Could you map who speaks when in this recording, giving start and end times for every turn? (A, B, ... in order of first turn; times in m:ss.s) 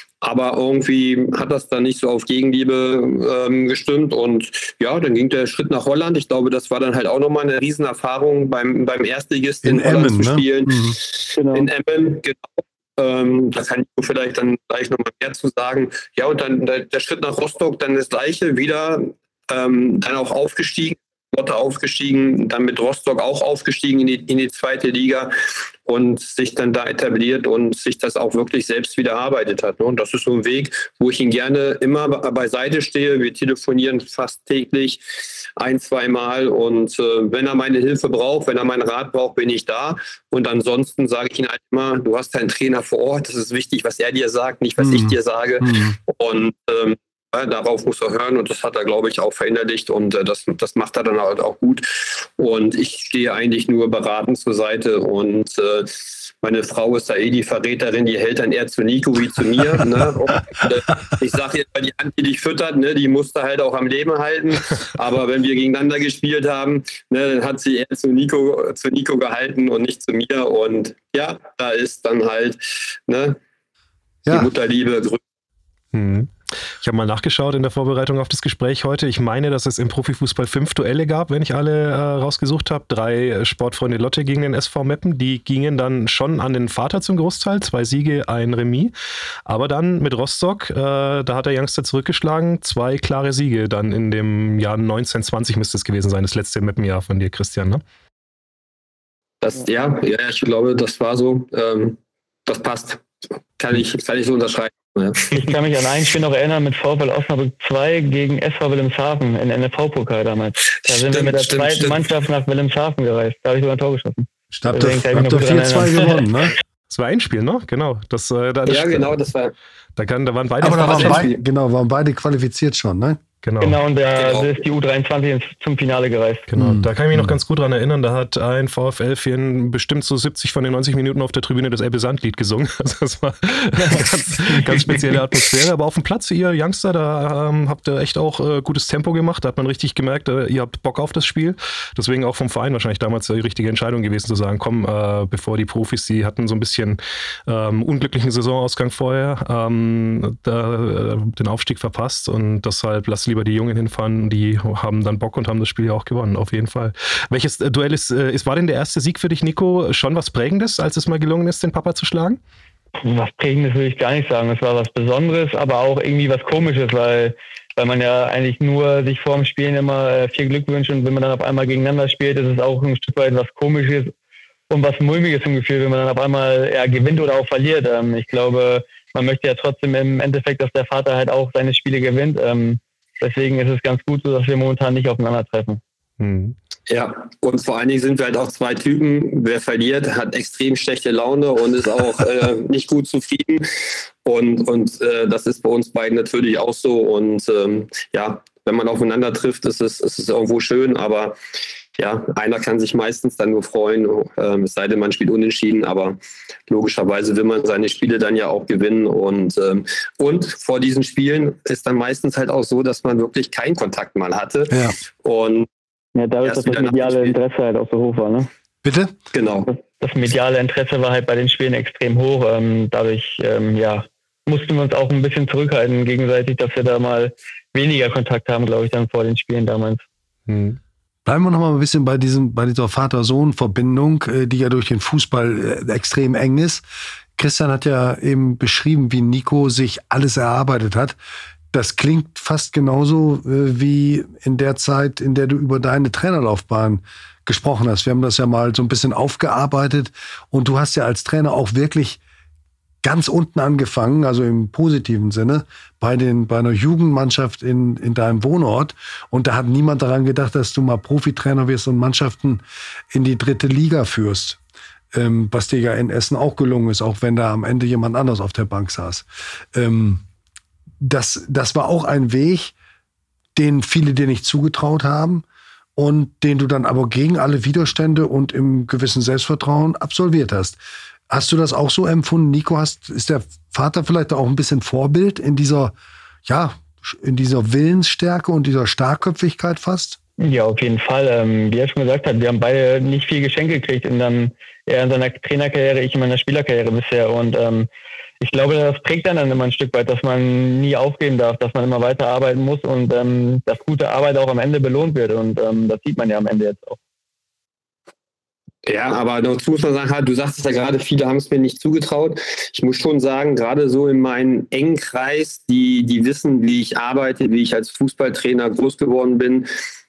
0:00.2-0:25.3 A
0:09.6-0:11.0 B
0:11.3-0:11.7 C
0:25.8-0:35.0 A
0:35.6-1:13.4 A
0:44.8-0:46.0 B
1:14.2-1:14.5 B
1:14.3-1:15.2 A
1:15.9-1:28.9 D
1:29.4-1:37.8 D
1:39.4-1:43.0 A
1:43.6-1:45.5 A
1:45.3-1:56.2 C
1:50.8-1:52.0 A
1:54.5-1:56.6 B
1:56.9-1:59.1 D
1:58.6-1:59.5 A
2:00.0-2:01.3 D
2:00.6-2:03.2 B
2:00.6-2:01.4 A
2:03.4-2:03.8 D
2:03.6-2:06.5 C
2:04.2-2:04.5 A
2:06.5-2:42.4 D
2:06.6-2:07.4 B
2:43.0-2:54.1 C
2:54.7-3:05.8 C
3:06.2-3:06.6 D
3:06.9-3:21.4 A
3:22.0-3:26.2 A
3:26.7-3:35.7 A
3:34.7-3:35.0 B
3:36.1-3:38.5 C
3:36.4-3:37.4 A
3:38.8-3:39.1 B
3:39.3-3:39.7 A
3:39.7-3:50.0 C
3:50.5-3:50.8 D
3:51.2-3:56.8 B
3:57.4-4:01.2 B
4:01.7-4:12.2 B
4:13.0-4:24.6 B
4:25.1-4:30.2 B
4:31.0-4:32.7 B
4:33.6-4:35.4 B
4:36.0-4:40.8 B
4:41.3-4:50.2 B
4:50.4-4:57.9 C
4:58.4-5:07.0 C
5:08.8-5:19.7 A